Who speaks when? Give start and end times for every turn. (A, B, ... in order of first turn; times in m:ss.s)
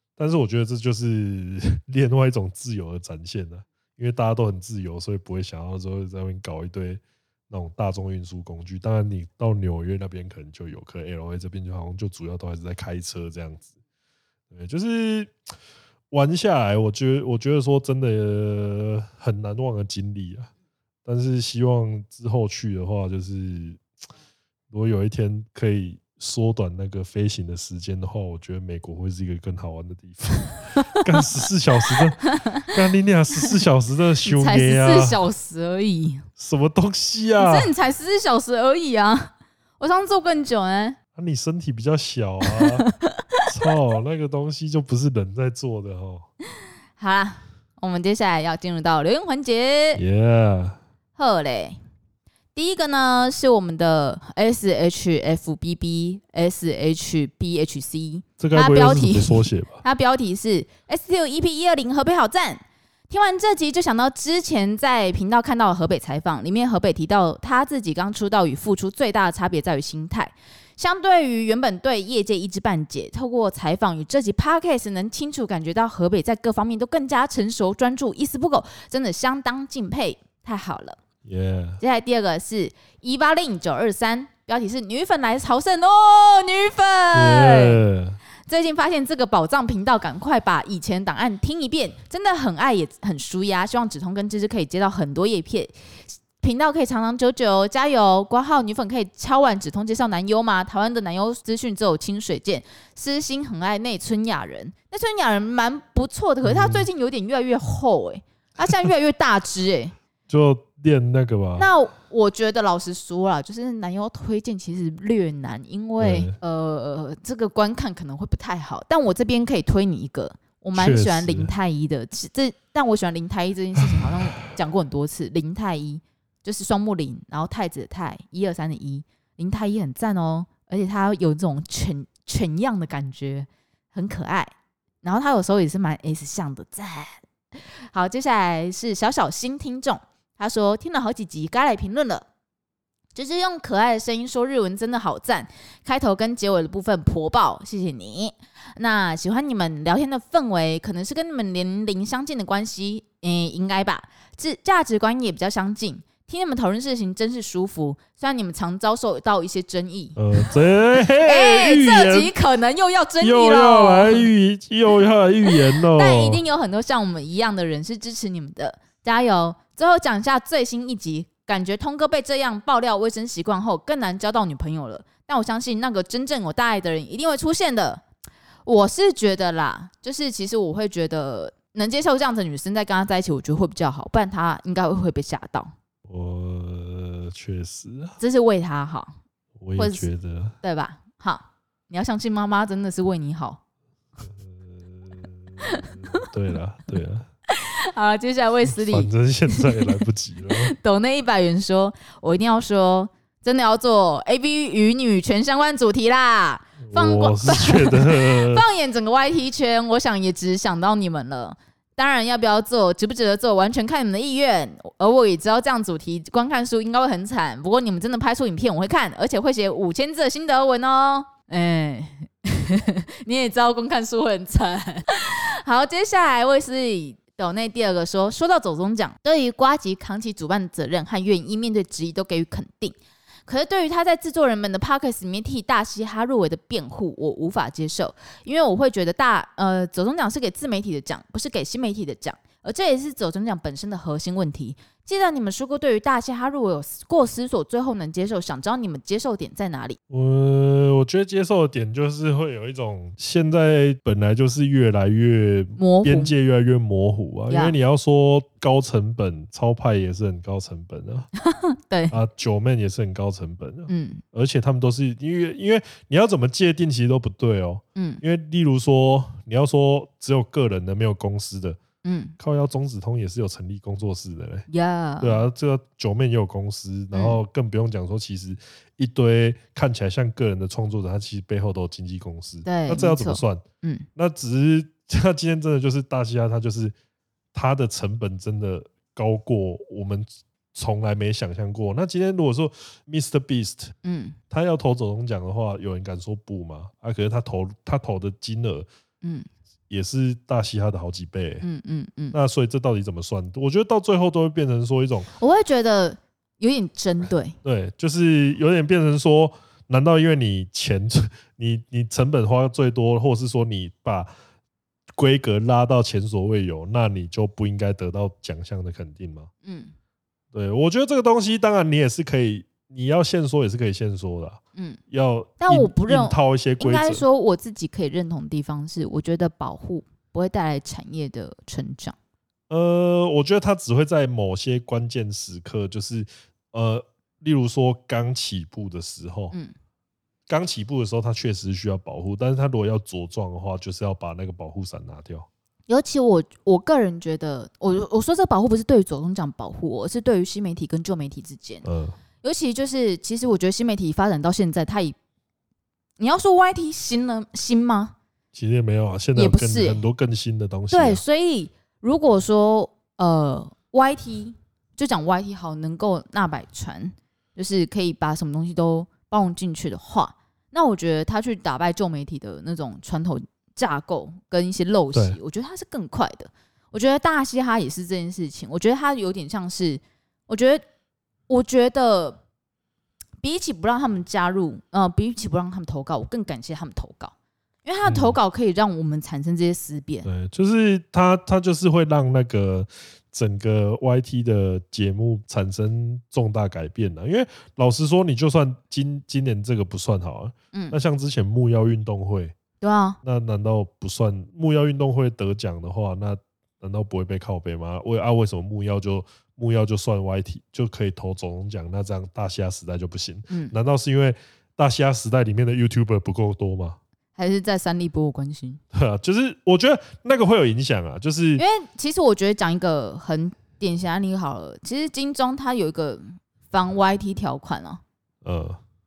0:00.2-0:13.7 A
0:14.5-0:15.3 A
0:16.1-0:20.5 A
0:21.0-0:23.8 A
0:24.7-0:35.2 A
0:30.8-0:31.0 B
0:31.9-0:32.7 B
0:34.3-0:36.3 B
0:36.4-0:37.7 A
0:37.4-0:41.0 B
0:41.2-0:42.9 A
0:42.5-0:43.5 B
0:43.5-0:46.3 A
0:47.0-0:50.0 B
0:50.0-0:50.8 A
0:51.2-0:51.8 B
0:52.6-1:21.0 B
0:58.4-0:59.8 A
1:21.2-1:21.8 A
1:21.8-1:27.8 B
1:27.1-1:28.2 A
1:28.5-1:50.0 B
1:46.4-1:46.9 A
1:50.3-1:51.7 A
1:51.6-2:14.5 B
1:56.0-1:56.4 A
2:00.8-2:01.5 A
2:15.0-2:22.3 B
2:23.2-2:40.4 B
2:40.2-2:42.3 A
2:41.2-2:44.3 B
2:43.2-2:46.4 A
2:45.5-2:58.0 B
2:58.6-3:05.7 B
3:06.1-3:08.2 A
3:08.2-3:09.2 B
3:09.6-3:10.6 A
3:09.8-3:10.1 B
3:10.6-3:13.6 B
3:14.2-3:17.3 A
3:15.6-3:16.2 B
3:17.5-3:53.0 B
3:18.7-3:20.7 A
3:26.8-3:28.6 A
3:53.5-4:10.0 B
4:10.1-4:21.3 A
4:15.8-4:16.3 B
4:17.5-4:17.7 B
4:21.4-4:22.2 B
4:22.1-4:31.8 A
4:23.9-4:24.2 B
4:28.0-4:28.2 B
4:32.0-4:32.4 B
4:32.4-4:34.7 A
4:34.7-4:35.4 B
4:35.2-4:43.6 A
4:37.1-4:37.4 B
4:42.6-4:44.1 B
4:44.2-4:47.0 A
4:47.5-4:54.0 A
4:54.0-4:54.4 B
4:54.5-4:58.9 A
4:59.2-4:59.5 B
4:59.9-5:01.7 A
5:01.6-5:02.4 B
5:02.3-5:05.3 A
5:05.4-5:07.6 B
5:07.6-5:14.3 A
5:15.2-5:19.5 A
5:19.6-5:19.9 B
5:20.5-5:24.6 A
5:25.1-5:27.2 A
5:25.6-5:32.2 B
5:32.7-5:39.6 A
5:40.5-5:45.5 A
5:45.9-5:51.8 B
5:51.8-5:52.2 A
5:52.4-5:55.2 B
5:56.2-5:58.1 B
5:58.5-6:01.2 A
5:59.4-6:00.0 B
6:00.9-6:20.8 B
6:21.5-6:22.4 B
6:23.4-6:27.3 B
6:27.8-6:30.3 B
6:28.0-6:28.4 A
6:30.2-6:42.6 A
6:42.8-6:43.2 B
6:43.2-6:57.0 A
6:53.5-6:53.8 B
6:57.4-6:58.8 B
6:58.9-7:01.6 A
7:01.6-7:08.0 B
7:08.4-7:08.8 A